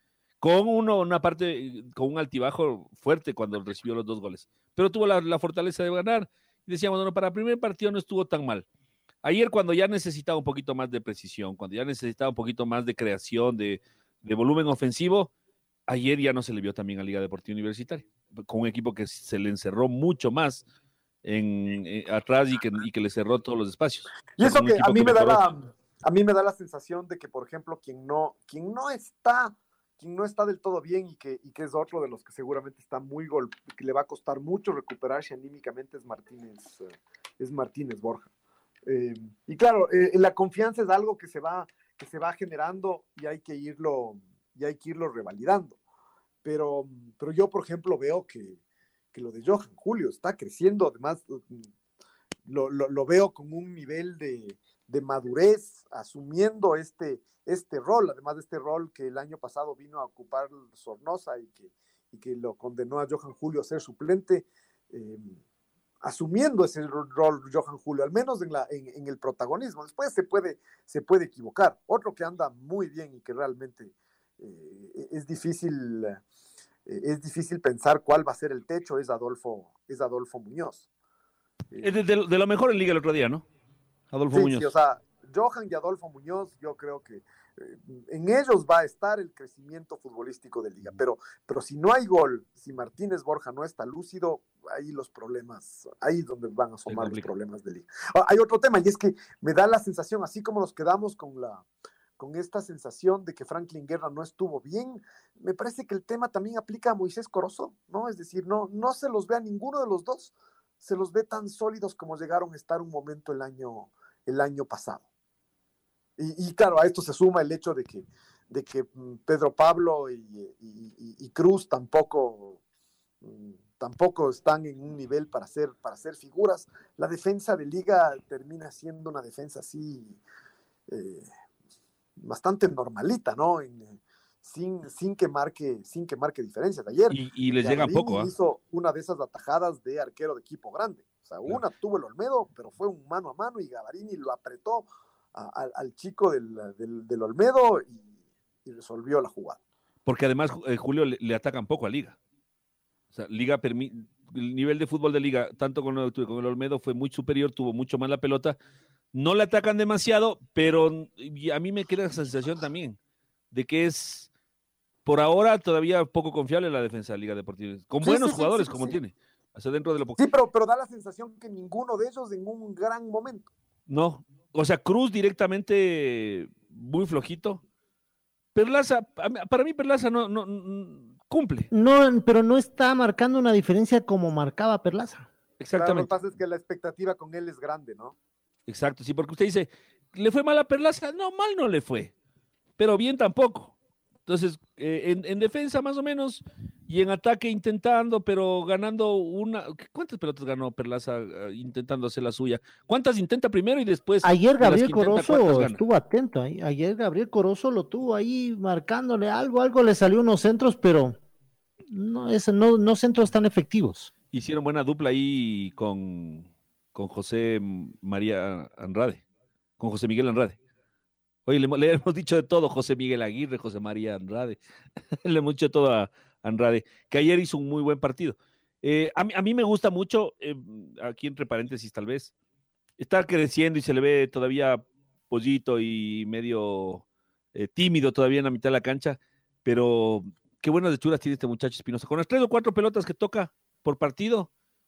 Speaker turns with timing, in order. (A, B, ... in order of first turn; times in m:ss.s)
0:00.4-0:08.6 A
0:09.2-0:15.3 A
0:15.9-0:20.6 A
0:21.2-0:25.4 A
0:24.4-0:36.9 B
0:37.4-0:38.3 B
0:38.9-0:45.8 B
0:46.4-0:48.6 B
0:49.1-0:51.7 B
0:52.4-1:05.4 B
1:06.0-1:16.2 B
1:16.8-1:20.9 B
1:21.8-1:23.4 A
1:24.1-1:24.7 A
1:24.3-1:41.6 B
1:36.9-1:37.3 A
1:42.2-1:55.0 B
1:56.2-2:02.6 B
2:03.2-2:10.2 B
2:10.9-2:11.3 B
2:12.2-2:28.0 B
2:17.1-2:18.3 A
2:28.6-2:29.6 B
2:30.0-2:32.2 A
2:33.1-2:38.6 A
2:39.1-2:43.0 A
2:43.5-2:44.3 A
2:45.0-2:50.2 A
2:48.0-2:49.0 B
2:50.2-2:53.5 B
2:53.9-2:57.6 A
2:58.5-3:01.7 A
3:01.7-3:05.3 C
3:05.6-3:06.1 A
3:05.7-3:08.1 B
3:08.7-3:12.1 A
3:12.8-3:13.7 A
3:14.2-3:25.8 A
3:24.2-3:31.2 C
3:31.9-3:34.1 C
3:34.3-3:39.2 A
3:39.8-3:40.6 A
3:41.4-3:44.6 A
3:45.2-3:52.3 A
3:53.0-3:57.0 A
3:57.5-4:04.5 A